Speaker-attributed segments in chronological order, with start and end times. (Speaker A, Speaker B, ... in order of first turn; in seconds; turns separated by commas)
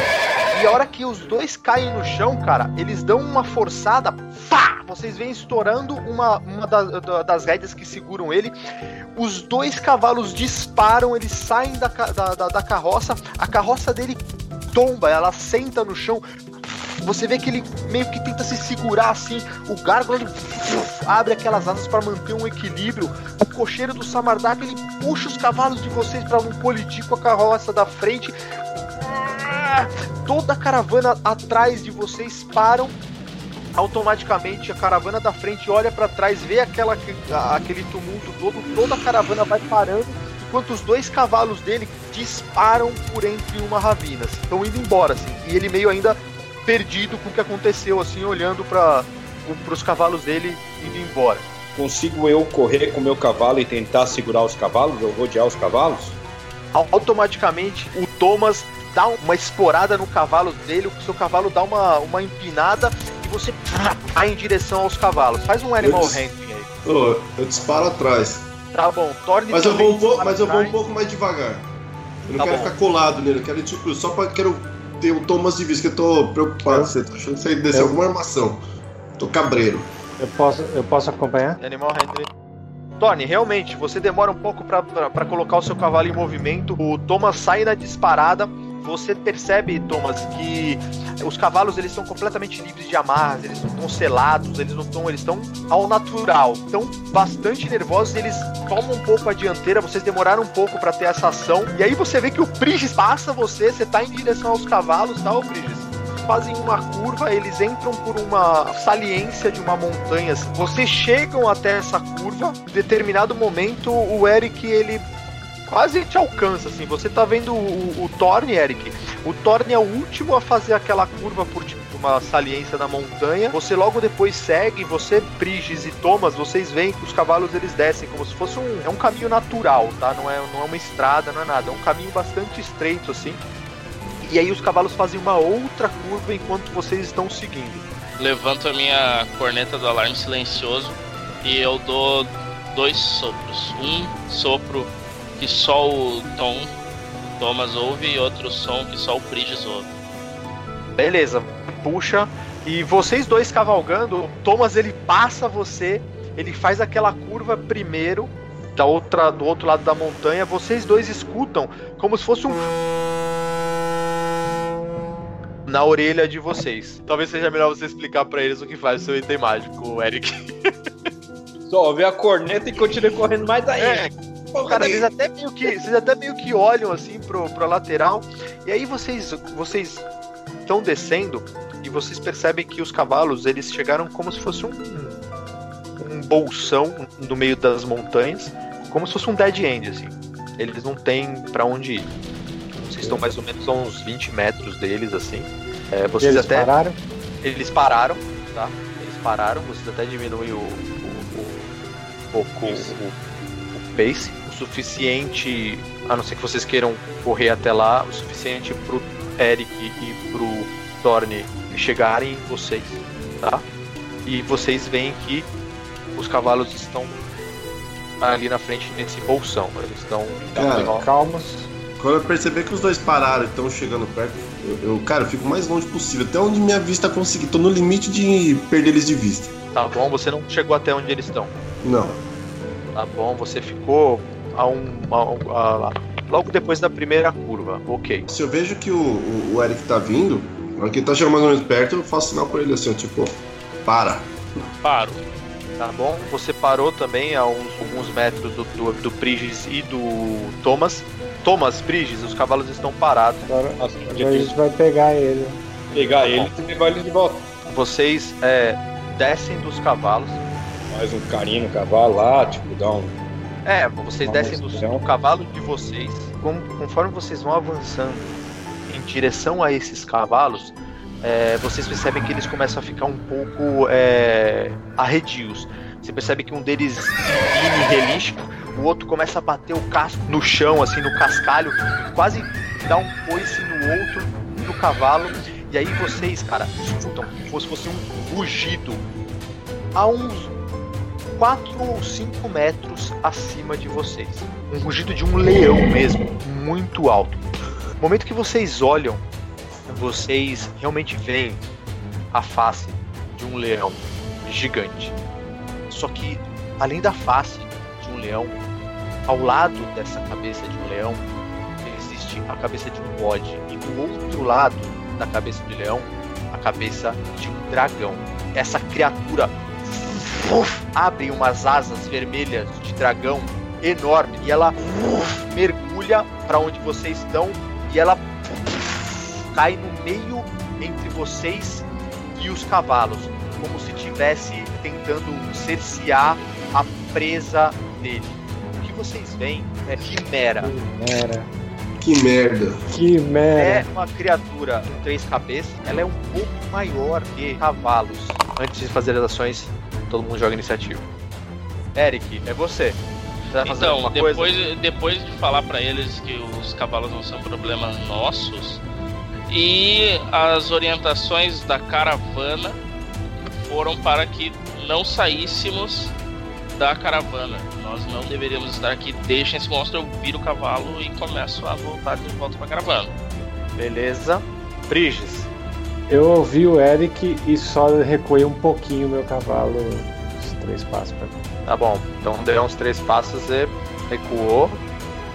Speaker A: 0.5-8.5, Speaker A: 9.2-14.2, Speaker A: 14.7-28.3, Speaker A: 29.1-33.0, Speaker A: 33.8-51.4, Speaker B: 51.8-56.2, Speaker A: 56.7-66.7, Speaker C: 65.8-66.2, Speaker C: 66.8-68.5, Speaker A: 68.7-70.8, Speaker C: 69.5-71.7, Speaker C: 72.3-78.6, Speaker A: 72.4-72.7, Speaker D: 77.7-78.0, Speaker C: 79.2-79.9, Speaker D: 80.2-81.6, Speaker A: 81.6-82.3, Speaker A: 83.0-115.0, Speaker A: 115.7-133.4, Speaker A: 134.2-137.9, Speaker E: 138.2-146.7, Speaker E: 147.3-149.9, Speaker A: 151.0-162.7, Speaker A: 165.7-170.4, Speaker B: 171.7-174.9, Speaker A: 173.8-174.1, Speaker A: 174.6-180.0, Speaker A: 180.7-185.2, Speaker A: 186.0-192.1, Speaker A: 192.7-196.7, Speaker D: 196.2-197.0, Speaker A: 197.4-201.7, Speaker A: 202.3-203.2, Speaker D: 202.7-202.9, Speaker A: 203.7-213.6, Speaker A: 214.2-215.5, Speaker A: 216.2-217.2, Speaker A: 218.2-221.1, Speaker C: 220.6-221.1, Speaker D: 221.0-221.7, Speaker C: 222.0-229.5, Speaker A: 229.7-231.6, Speaker C: 231.8-232.2, Speaker A: 232.9-238.3, Speaker C: 238.3-244.3, Speaker E: 244.8-245.2, Speaker A: 245.8-253.5, Speaker D: 253.4-255.7, Speaker B: 253.8-254.6, Speaker B: 255.9-257.5, Speaker A: 256.2-256.5, Speaker A: 257.7-260.4, Speaker B: 260.9-263.1, Speaker A: 263.6-268.3, Speaker B: 264.3-265.0, Speaker A: 268.9-289.1, Speaker A: 289.9-290.5, Speaker A: 291.4-297.4, Speaker A: 298.0-299.2, Speaker A: 299.9-301.6, Speaker A: 302.3-305.2, Speaker A: 305.9-308.6, Speaker A: 309.3-311.3, Speaker A: 311.8-340.7, Speaker D: 340.6-341.5, Speaker C: 342.0-342.8, Speaker D: 342.9-343.9, Speaker A: 343.6-351.1, Speaker A: 351.9-353.0, Speaker A: 353.5-354.5, Speaker E: 353.6-358.8, Speaker E: 359.5-362.8, Speaker E: 363.4-366.1, Speaker E: 366.8-373.1, Speaker A: 373.8-375.5, Speaker D: 376.1-381.4, Speaker A: 381.7-384.8